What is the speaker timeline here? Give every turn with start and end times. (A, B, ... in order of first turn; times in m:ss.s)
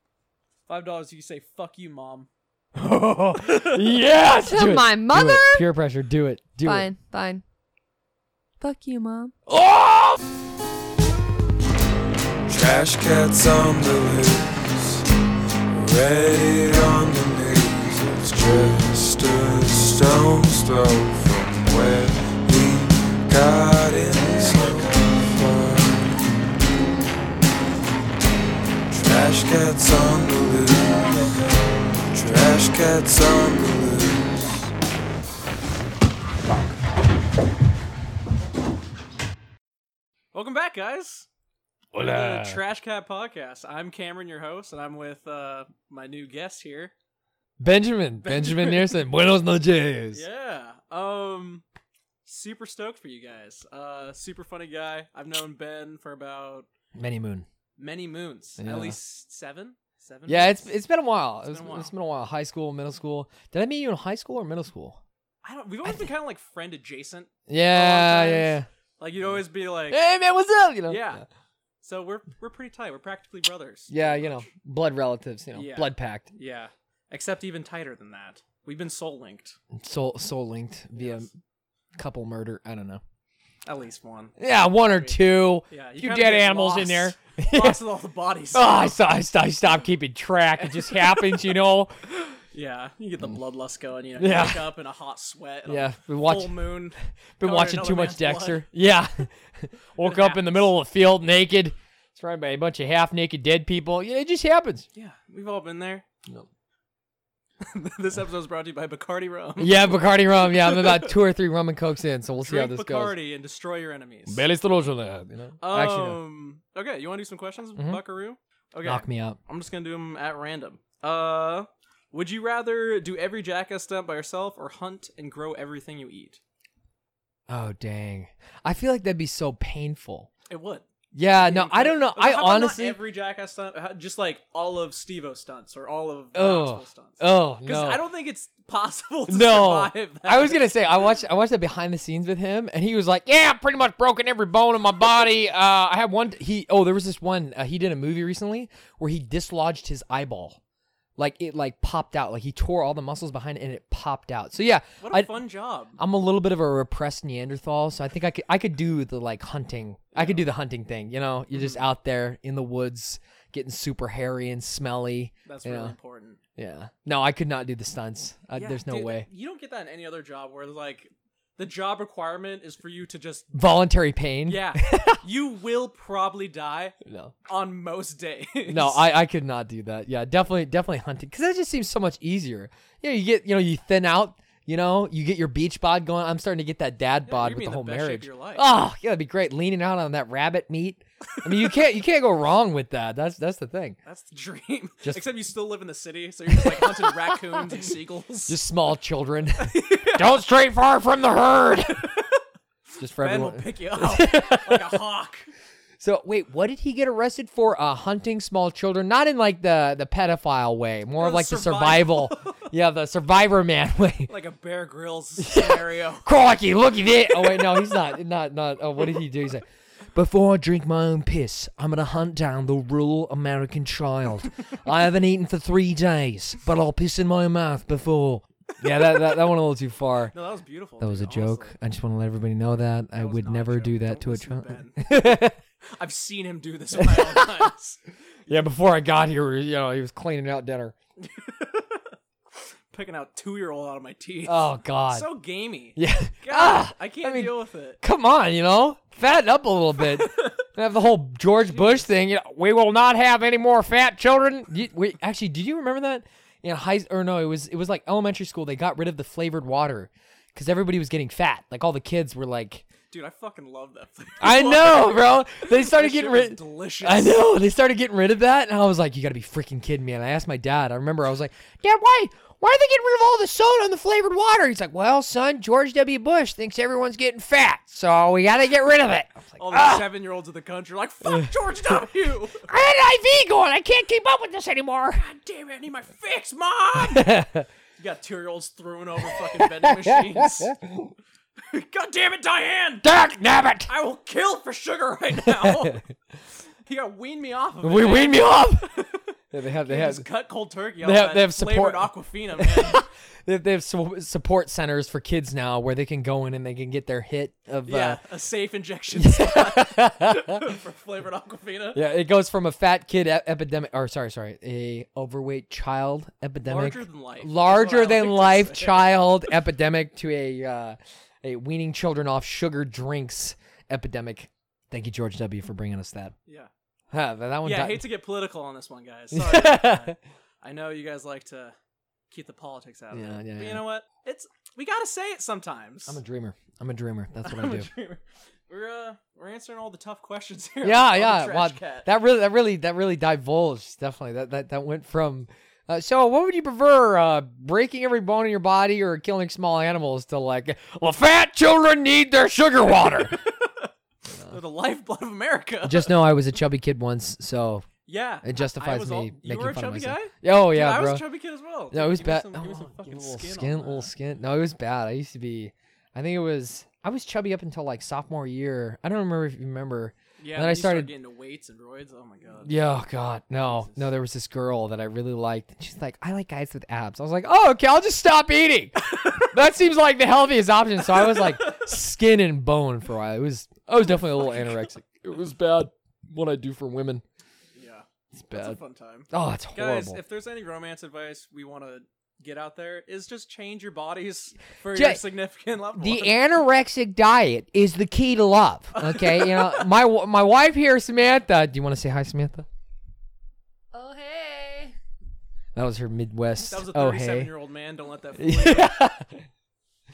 0:00.7-0:02.3 A
0:02.8-0:06.9 B
0:03.4-0:03.9 A
0:04.5-0:05.6 C
0:06.6-0:07.4 C
0:08.6-0:09.3 C
0:09.5-0:10.2 B
0:12.5-0:15.0 D
0:15.7-0:26.2 D
0:28.9-0:34.7 D
0:40.3-0:41.3 A
0:41.9-0:42.6 B
0:42.0-0:46.9 A
0:47.6-0:50.2 B
0:48.2-0:49.0 A
0:50.1-0:51.6 A
0:52.2-0:56.7 A
0:57.0-0:57.5 B
0:57.8-1:00.7 A
0:58.6-0:59.0 B
1:00.3-1:05.0 B
1:01.5-1:01.9 A
1:05.4-1:10.0 A
1:07.5-1:08.7 B
1:09.9-1:11.2 B
1:10.9-1:11.2 A
1:11.8-1:14.5 A
1:13.9-1:16.3 B
1:15.5-1:19.6 A
1:19.7-1:21.3 B
1:21.0-1:21.3 A
1:22.0-1:23.0 B
1:23.6-1:29.0 A
1:24.4-1:27.8 B
1:28.5-1:32.0 B
1:30.6-1:31.4 A
1:32.5-1:38.7 A
1:34.2-1:34.7 B
1:35.7-1:44.9 B
1:40.0-1:40.7 A
1:44.9-1:46.0 A
1:47.6-1:51.2 A
1:49.6-1:53.2 B
1:52.4-1:54.4 A
1:54.3-1:56.2 B
1:55.6-2:06.4 A
1:58.8-1:59.4 B
2:07.5-2:10.3 B
2:10.5-2:20.7 A
2:11.1-2:13.0 B
2:16.3-2:18.0 B
2:19.3-2:30.6 B
2:31.2-2:35.4 B
2:35.0-2:36.0 A
2:36.0-2:46.0 B
2:40.2-2:40.5 A
2:41.5-2:41.8 A
2:45.5-2:46.4 A
2:46.6-2:49.3 B
2:48.6-2:53.5 A
2:53.5-2:55.2 B
2:54.5-2:59.1 A
2:57.0-2:57.3 B
2:58.7-3:14.0 B
3:07.3-3:08.6 A
3:14.0-3:18.6 A
3:16.5-3:17.0 B
3:18.5-3:22.1 B
3:19.6-3:20.4 A
3:21.9-3:22.4 A
3:23.0-3:25.0 B
3:23.2-3:25.5 A
3:26.0-3:34.3 B
3:31.2-3:32.6 A
3:34.3-3:36.3 A
3:35.4-3:50.3 B
3:37.3-3:38.0 A
3:50.3-3:51.8 A
3:51.0-3:55.6 B
3:53.2-3:55.4 A
3:55.9-3:58.0 A
3:57.0-3:57.7 B
3:58.5-4:01.0 B
4:01.2-4:02.1 A
4:02.9-4:08.0 A
4:04.5-4:05.3 B
4:06.0-4:22.9 B
4:10.0-4:10.6 A
4:11.7-4:12.1 A
4:23.1-4:27.4 A
4:24.4-4:40.0 B
4:39.6-4:42.7 A
4:42.7-4:45.2 B
4:45.1-4:47.4 A
4:47.0-4:47.7 B
4:48.0-4:50.8 A
4:49.2-4:51.1 B
4:51.6-4:53.1 A
4:53.0-4:53.9 B
4:53.9-4:56.1 A
4:55.4-4:56.0 B
4:56.8-4:59.3 A
4:57.8-4:58.9 B
4:59.5-5:00.3 B
4:59.8-5:03.0 A
5:01.0-5:08.2 B
5:07.9-5:12.0 A
5:09.1-5:10.7 B
5:11.9-5:26.3 B
5:16.7-5:19.3 A
5:27.1-5:28.1 B
5:27.6-5:31.8 A
5:29.3-5:30.2 B
5:32.3-5:36.2 A
5:33.1-5:33.8 B
5:36.1-5:37.9 B
5:37.4-5:42.1 A
5:40.8-5:53.4 B
5:52.8-5:53.9 A
5:54.3-5:54.6 B
5:54.5-5:56.1 A
5:55.8-5:57.9 B
5:58.1-6:04.1 A
5:58.4-6:01.2 B
6:01.9-6:11.1 B
6:10.4-6:12.8 A
6:12.6-6:27.2 B
6:13.6-6:14.1 A
6:21.1-6:22.0 A
6:24.3-6:24.8 A
6:27.8-6:36.4 A
6:28.3-6:28.8 B
6:29.3-6:30.2 B
6:34.9-6:35.2 B
6:36.0-6:42.7 B
6:39.0-6:39.9 A
6:43.9-6:44.9 C
6:45.8-6:47.5 B
6:46.7-6:49.0 A
6:48.4-6:49.4 B